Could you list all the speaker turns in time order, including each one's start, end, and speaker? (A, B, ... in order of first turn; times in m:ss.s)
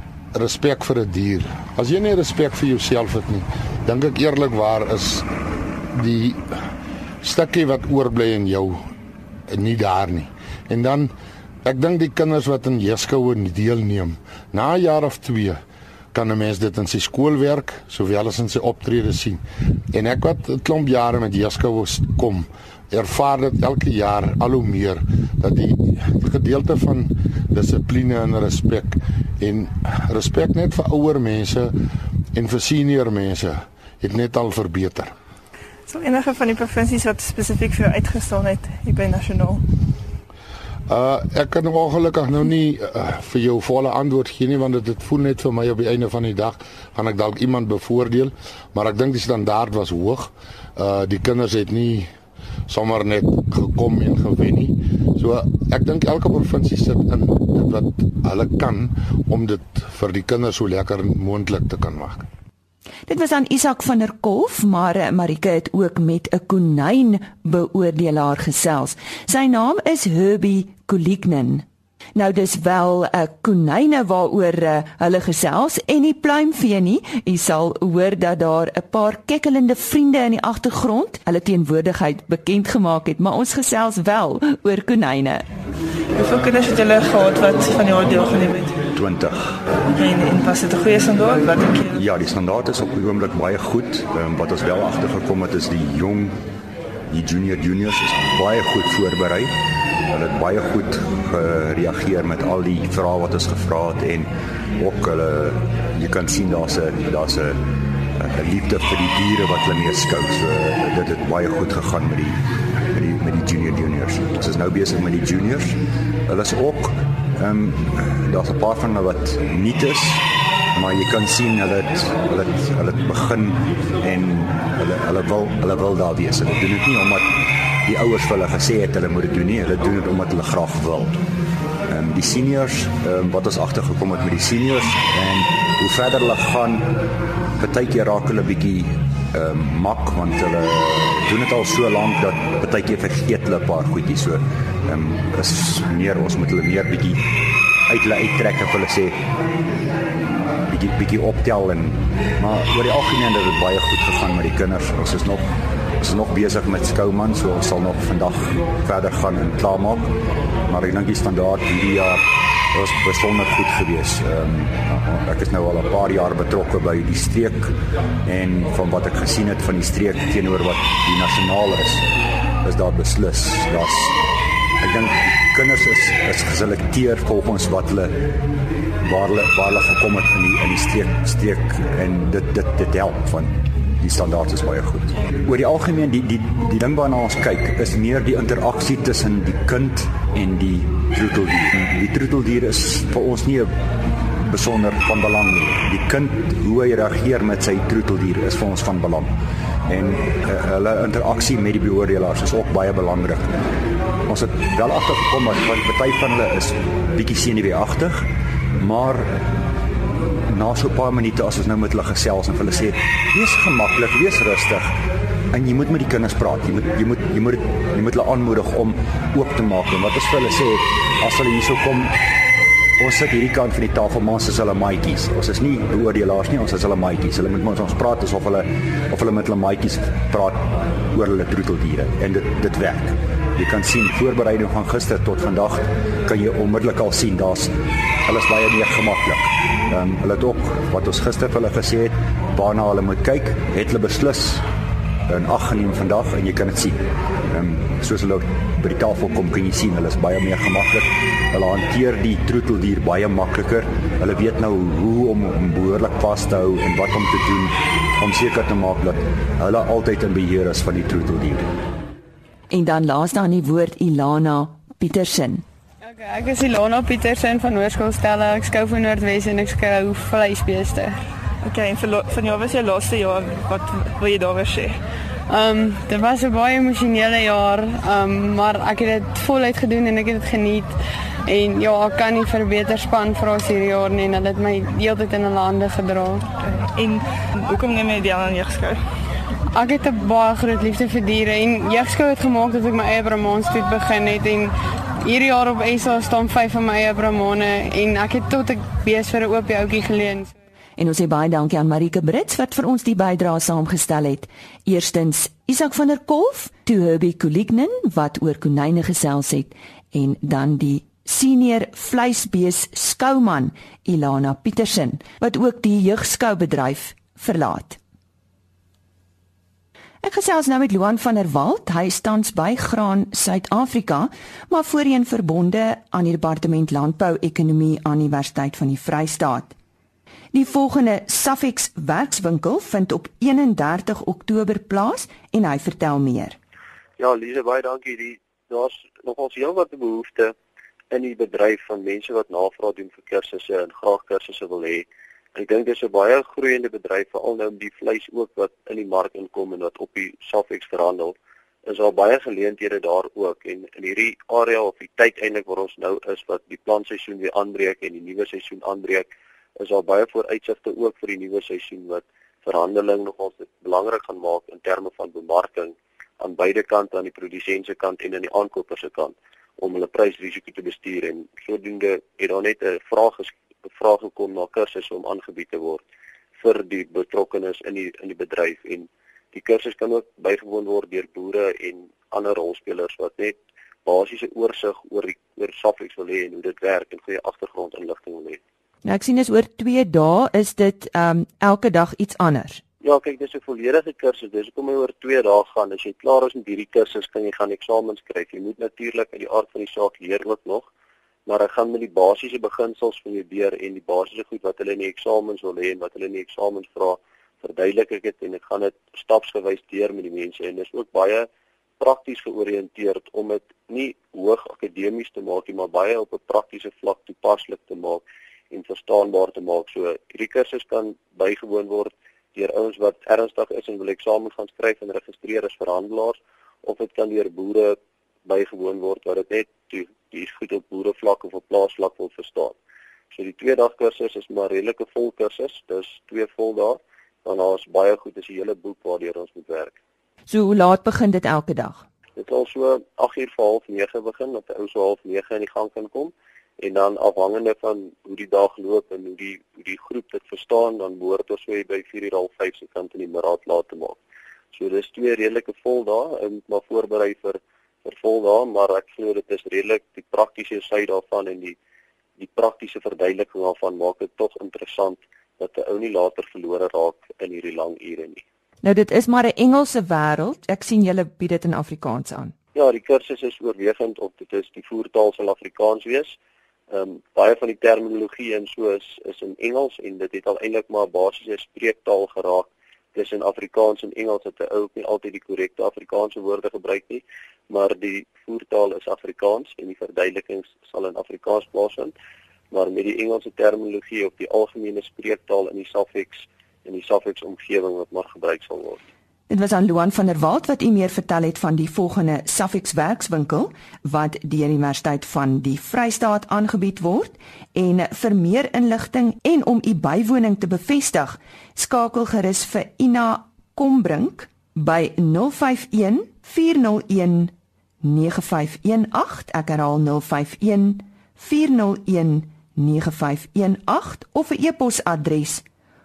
0:00.3-0:05.3 A
0:05.9-0:06.6 A
0:07.2-0:08.8 A
0:09.5-0:11.1 A
0:11.6-0:15.6 A
0:16.1-0:31.8 A
0:32.3-0:35.1 A
0:35.9-0:39.7 B
0:40.9-0:52.1 A
0:52.7-1:02.3 A
1:03.1-1:25.5 C
1:26.2-1:28.8 B
1:29.0-1:29.6 D
1:29.9-1:32.0 B
1:31.9-1:36.4 D
1:37.1-1:39.6 D
1:40.1-1:47.6 D
1:48.2-1:52.4 D
1:52.9-1:55.8 D
1:56.3-2:00.2 D
2:00.8-2:07.3 D
2:07.8-2:11.2 D
2:11.9-2:16.9 D
2:17.6-2:27.2 D
2:27.9-2:29.2 D
2:30.7-2:40.1 D
2:40.7-2:42.2 D
2:42.7-2:47.7 D
2:48.2-2:52.0 D
2:52.6-2:54.2 D
2:54.8-2:58.2 D
2:59.0-3:13.8 D
3:14.4-3:19.3 D
3:19.9-3:23.5 D
3:24.3-3:29.3 D
3:30.5-3:34.9 D
3:35.5-3:42.1 D
3:43.0-3:57.7 D
3:58.3-4:04.6 D
4:05.3-4:21.7 D
4:22.7-4:25.6 C
4:26.0-4:31.2 E
4:31.6-4:35.0 B
4:35.5-4:41.0 E
4:41.5-4:46.5 E
4:46.9-4:49.0 B
4:49.8-4:54.7 E
4:55.2-5:00.5 E
5:01.0-5:18.0 C
5:20.2-5:29.8 C
5:30.5-5:36.6 C
5:37.2-5:40.6 F
5:41.1-5:59.3 F
5:59.8-6:16.0 F
6:16.6-6:28.6 F
6:29.0-6:32.8 C
6:33.0-6:40.9 F
6:41.5-6:51.5 F
6:52.0-7:12.8 F
7:13.3-7:20.0 F
7:20.5-7:22.0 C
7:22.4-7:34.2 F
7:34.7-7:41.8 F
7:42.4-7:48.4 F
7:48.8-7:52.5 C
7:52.8-7:56.4 F
7:56.9-8:12.1 F
8:12.7-8:19.0 F
8:19.5-8:45.6 C